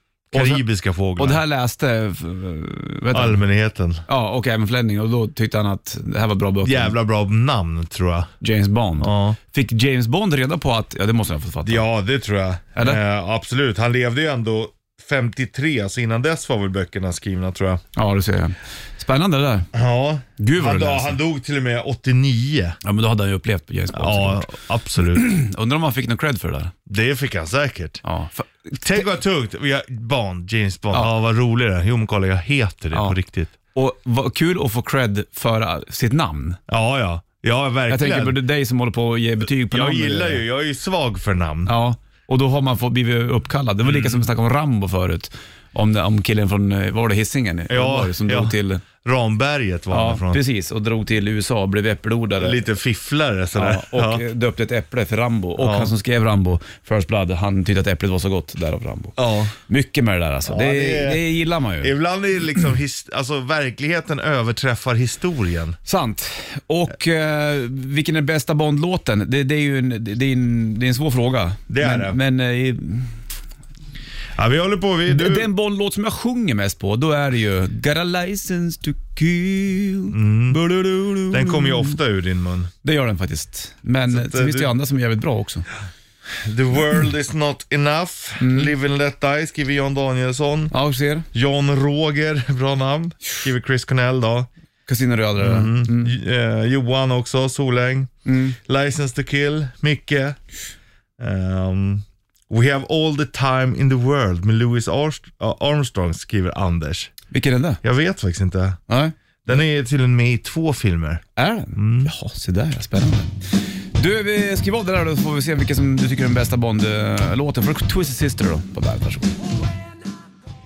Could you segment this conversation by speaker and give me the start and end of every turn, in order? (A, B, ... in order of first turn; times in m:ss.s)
0:00.3-0:01.4 A
0:00.3-0:00.6 B
0:01.2-0:03.4 B
0:03.1-0:04.0 A
0:04.1-0:07.0 B
0:06.6-0:08.3 A
0:08.4-0:11.9 B
0:09.0-0:09.4 A
0:11.6-0:17.8 A
0:18.0-0:19.7 B
0:19.7-0:22.8 A
0:20.4-0:21.2 B
0:22.8-0:24.6 B
0:23.9-0:25.3 A
0:25.1-0:26.7 B
0:26.9-0:28.0 A
0:28.0-0:29.0 B
0:28.8-0:33.5 A
0:33.8-0:36.6 B
0:36.7-0:38.4 A
0:37.9-0:40.4 B
0:39.7-0:41.7 A
0:41.7-0:48.8 B
0:43.9-0:44.2 A
0:47.7-0:50.4 A
0:49.9-0:52.7 B
0:52.4-0:54.2 A
0:53.6-1:01.9 B
0:55.6-0:55.9 A
0:59.2-0:59.5 A
1:00.5-1:01.2 A
1:01.8-1:05.8 A
1:05.9-1:13.2 B
1:11.7-1:12.2 A
1:14.4-1:15.5 A
1:15.1-1:22.0 B
1:20.1-1:20.6 A
1:21.3-1:22.7 A
1:22.8-1:25.7 B
1:24.1-1:24.7 A
1:26.4-1:30.7 A
1:28.4-1:28.7 B
1:30.7-1:31.3 B
1:31.3-1:34.5 A
1:34.9-1:36.2 B
1:35.4-1:40.4 A
1:38.3-1:38.6 B
1:41.2-1:47.1 A
1:47.3-1:47.8 B
1:47.8-1:48.8 A
1:48.9-1:49.1 B
1:49.4-1:52.1 A
1:51.4-1:53.4 B
1:54.0-1:59.3 B